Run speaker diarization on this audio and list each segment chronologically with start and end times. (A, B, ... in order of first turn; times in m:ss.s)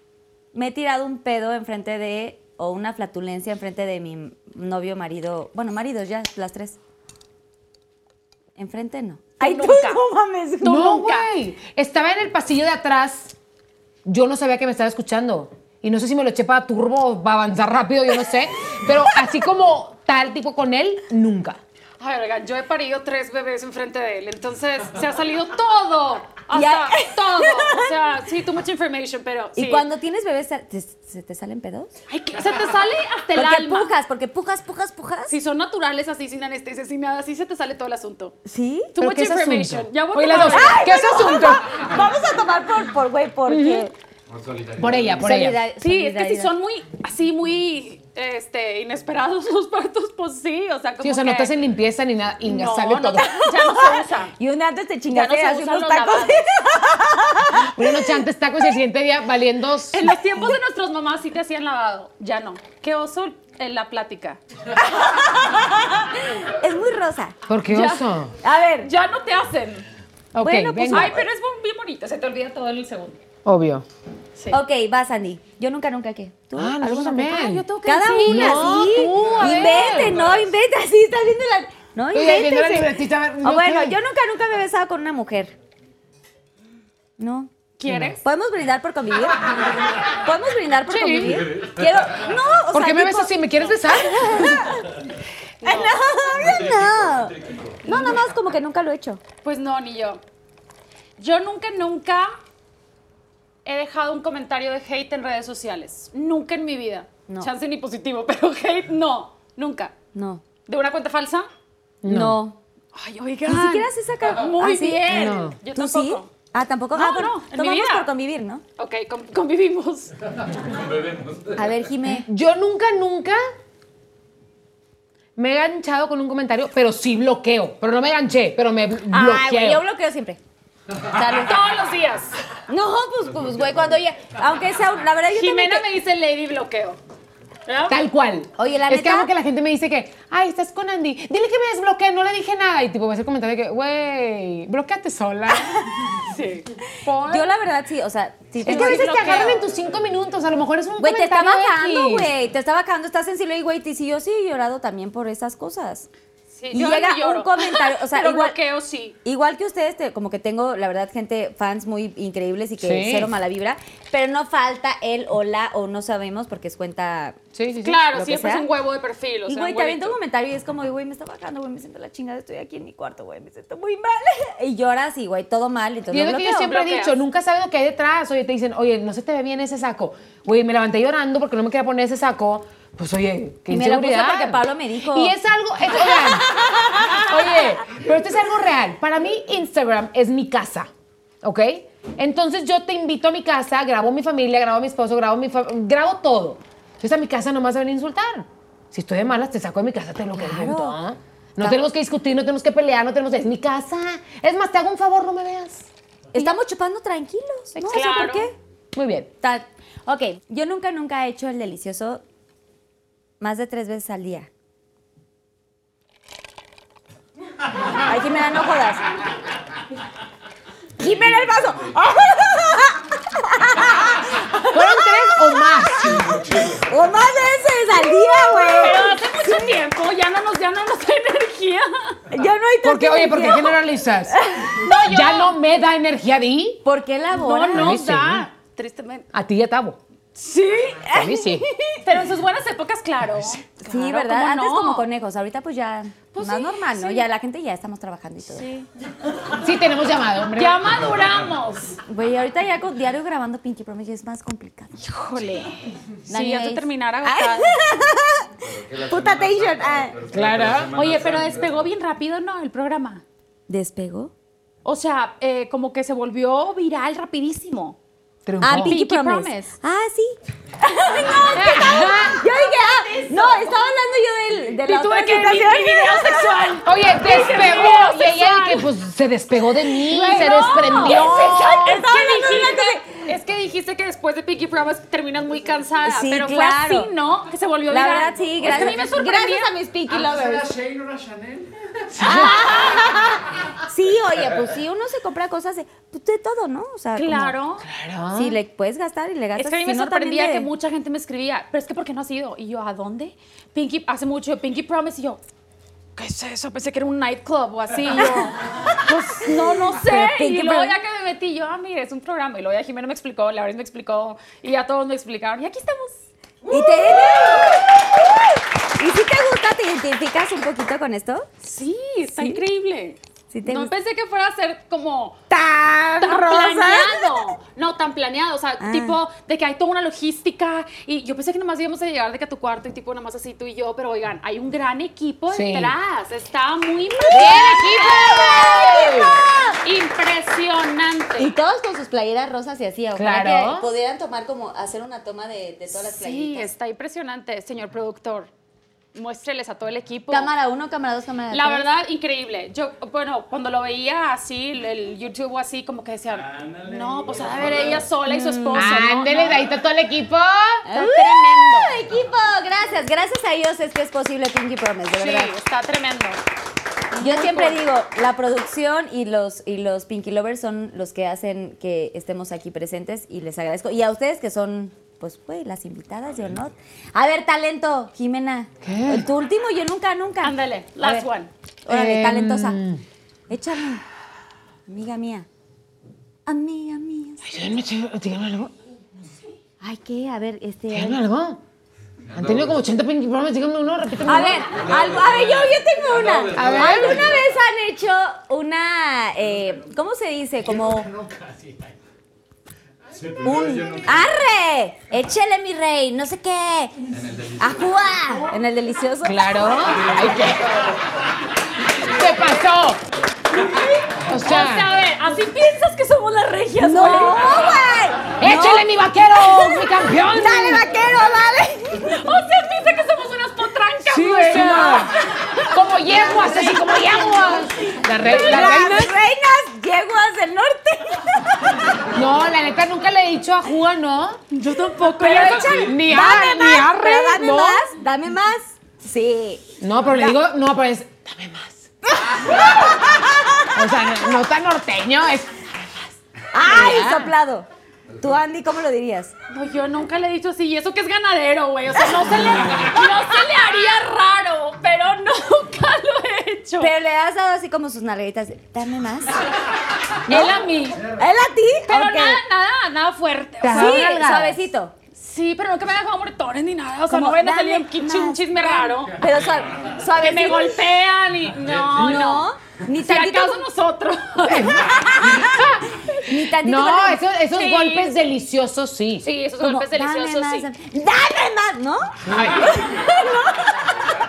0:00.5-0:06.8 A
0:08.6-0:10.9 A
0:09.4-0:10.0 B
0:10.6-0:11.3 B
0:10.6-0:13.3 C
0:14.0-0:21.6 C
0:22.0-0:29.8 B
0:26.5-0:27.9 A
0:29.6-0:31.9 A
0:32.1-0:33.9 B
0:33.3-0:35.3 A
0:35.3-0:38.4 B
0:38.4-0:38.9 A
0:38.9-0:41.4 B
0:39.0-0:41.9 C
0:40.3-0:43.9 A
0:43.5-0:43.9 C
0:44.3-0:45.3 D
0:44.8-0:45.6 C
0:45.2-0:46.5 A
0:45.8-0:51.6 B
0:51.0-0:53.3 C
0:52.4-0:54.4 B
0:53.4-0:58.2 A
0:55.1-0:56.4 B
0:57.7-1:00.2 C
0:59.9-1:04.4 B
1:04.9-1:07.4 A
1:07.5-1:08.3 C
1:07.7-1:08.1 B
1:08.4-1:08.9 A
1:08.8-1:09.8 B
1:10.3-1:11.2 C
1:10.4-1:11.2 A
1:10.9-1:13.2 B
1:13.4-1:13.8 C
1:14.5-1:25.5 A
1:16.6-1:17.6 C
1:17.2-1:20.0 B
1:18.2-1:20.2 C
1:22.1-1:24.0 C
1:27.2-1:27.5 A
1:27.8-1:28.2 B
1:27.9-1:28.2 C
1:28.2-1:35.0 A
1:30.9-1:31.5 B
1:31.5-1:32.0 D
1:32.7-1:34.5 C
1:35.6-1:36.0 B
1:35.6-1:39.2 A
1:36.3-1:37.8 D
1:37.8-1:38.2 B
1:39.4-1:40.2 B
1:41.2-1:42.3 B
1:43.6-1:49.9 B
1:50.1-1:50.4 A
1:50.6-1:51.5 B
1:52.0-1:52.4 C
1:52.0-1:52.6 A
1:52.9-1:56.3 B
1:53.4-1:58.6 A
1:55.1-1:55.6 C
1:56.9-1:58.1 B
1:58.8-2:00.1 B
2:00.6-2:01.9 D
2:01.6-2:02.3 A
2:02.1-2:03.4 C
2:05.4-2:09.8 C
2:09.1-2:10.4 A
2:11.0-2:11.6 A
2:11.3-2:12.4 B
2:12.7-2:15.8 A
2:15.3-2:17.0 B
2:17.6-2:18.0 B
2:17.9-2:25.8 C
2:18.6-2:19.3 A
2:26.2-2:27.5 B
2:27.2-2:29.6 A
2:28.6-2:29.6 B
2:28.6-2:32.3 C
2:31.0-2:36.1 A
2:36.5-2:39.2 B
2:36.7-2:38.6 A
2:39.2-2:47.4 A
2:42.8-2:43.3 C
2:47.5-2:48.0 C
2:47.8-2:50.2 B
2:48.1-2:48.6 A
2:49.5-2:56.7 A
2:56.1-3:06.5 C
2:56.6-2:57.1 B
3:03.7-3:05.3 A
3:07.2-3:10.9 C
3:11.4-3:25.9 C
3:20.3-3:21.0 A
3:21.6-3:21.8 A
3:26.3-3:28.5 A
3:27.8-3:28.5 B
3:28.9-3:29.3 C
3:29.4-3:32.2 A
3:33.4-3:34.5 A
3:38.0-3:39.0 A
3:41.0-3:46.0 A
3:41.0-3:41.7 D
3:44.7-3:46.4 C
3:46.8-3:49.7 A
3:48.6-3:52.2 B
3:52.3-3:53.8 A
3:52.8-3:56.8 C
3:54.3-3:54.8 A
3:54.8-3:55.6 B
3:56.8-3:58.0 A
3:57.3-3:59.3 B
3:57.7-3:58.5 C
3:59.3-4:00.0 C
4:00.3-4:01.0 B
4:01.0-4:02.0 A
4:01.1-4:01.6 C
4:02.0-4:05.0 B
4:03.8-4:08.7 A
4:06.3-4:07.2 B
4:09.6-4:10.8 C
4:10.5-4:12.0 B
4:12.1-4:15.0 A
4:15.0-4:17.8 B
4:16.3-4:18.5 A
4:18.6-4:21.9 D
4:19.0-4:20.2 A
4:20.3-4:21.0 C
4:20.9-4:23.2 B
4:23.7-4:24.3 A
4:24.8-4:28.0 B
4:28.4-4:29.0 C
4:28.6-4:36.8 A
4:28.7-4:29.8 B
4:31.2-4:34.0 B
4:31.5-4:32.4 C
4:34.8-4:38.9 B
4:36.8-4:41.5 C
4:40.0-4:49.7 B
4:40.4-4:43.1 A
4:46.0-4:47.1 A
4:47.9-4:50.7 A
4:50.1-4:52.0 E
4:52.1-4:52.7 C
4:52.2-4:53.4 A
4:52.2-4:53.3 B
4:53.9-4:57.6 A
4:57.2-4:57.8 B
4:57.8-4:58.6 C
4:58.3-5:00.7 A
4:59.6-5:05.4 B
5:06.2-5:16.2 B
5:09.9-5:11.0 A
5:16.7-5:17.9 A
5:19.0-5:21.5 A
5:21.6-5:25.4 B
5:22.3-5:22.6 A
5:23.5-5:23.9 A
5:25.5-5:27.4 A
5:26.2-5:39.1 B
5:28.8-5:29.2 A
5:35.5-5:35.9 C
5:37.2-5:39.8 A
5:37.3-5:39.4 C
5:39.8-5:41.5 B
5:41.4-5:46.7 A
5:43.1-5:43.9 C
5:45.9-5:48.5 B
5:49.1-5:50.5 B
5:50.3-5:51.9 A
5:51.5-5:59.6 B
5:58.2-5:58.9 A
5:58.7-6:00.8 C
6:00.8-6:05.5 A
6:00.9-6:01.9 B
6:05.1-6:06.4 B
6:07.1-6:07.8 B
6:07.2-6:21.3 A
6:18.8-6:19.3 C
6:20.4-6:21.5 B
6:21.8-6:22.8 A
6:21.9-6:23.0 C
6:23.5-6:24.0 A
6:24.9-6:25.5 A
6:26.4-6:27.5 A
6:27.4-6:28.7 C
6:29.8-6:31.2 A
6:30.9-6:31.6 C
6:32.3-6:32.8 D
6:32.3-6:34.9 C
6:34.2-6:41.1 A
6:34.7-6:37.5 D
6:36.5-6:37.4 C
6:40.7-6:42.0 E
6:43.2-6:44.3 D
6:43.4-6:47.0 A
6:47.2-6:47.9 D
6:47.6-6:50.0 A
6:49.2-6:50.7 C
6:52.0-6:53.0 C
6:53.6-6:57.8 B
6:54.3-6:54.9 C
6:56.8-6:58.9 A
6:58.4-7:00.8 C
6:59.5-7:02.2 A
7:02.0-7:07.5 B
7:04.0-7:05.1 C
7:05.7-7:09.1 C
7:08.2-7:09.0 B
7:08.2-7:11.8 A
7:12.1-7:14.4 C
7:14.5-7:16.0 B
7:15.2-7:20.4 A
7:15.6-7:17.9 C
7:19.8-7:21.9 C
7:22.3-7:23.7 A
7:23.7-7:25.6 C
7:26.5-7:27.7 A
7:26.6-7:27.3 C
7:28.2-7:29.3 A
7:29.5-7:36.9 B
7:36.8-7:39.5 A
7:40.2-7:41.0 B
7:40.3-7:42.4 A
7:41.9-7:44.2 B
7:43.6-7:44.6 C
7:43.7-7:44.9 A
7:45.2-7:49.2 B
7:47.1-7:50.8 A
7:50.1-7:52.5 B
7:51.9-7:53.6 A
7:53.0-7:55.0 B
7:54.4-7:59.2 C
7:54.8-7:57.2 A
7:57.5-7:58.2 B
7:59.2-8:00.7 B
7:59.6-8:03.9 A
8:02.3-8:02.8 C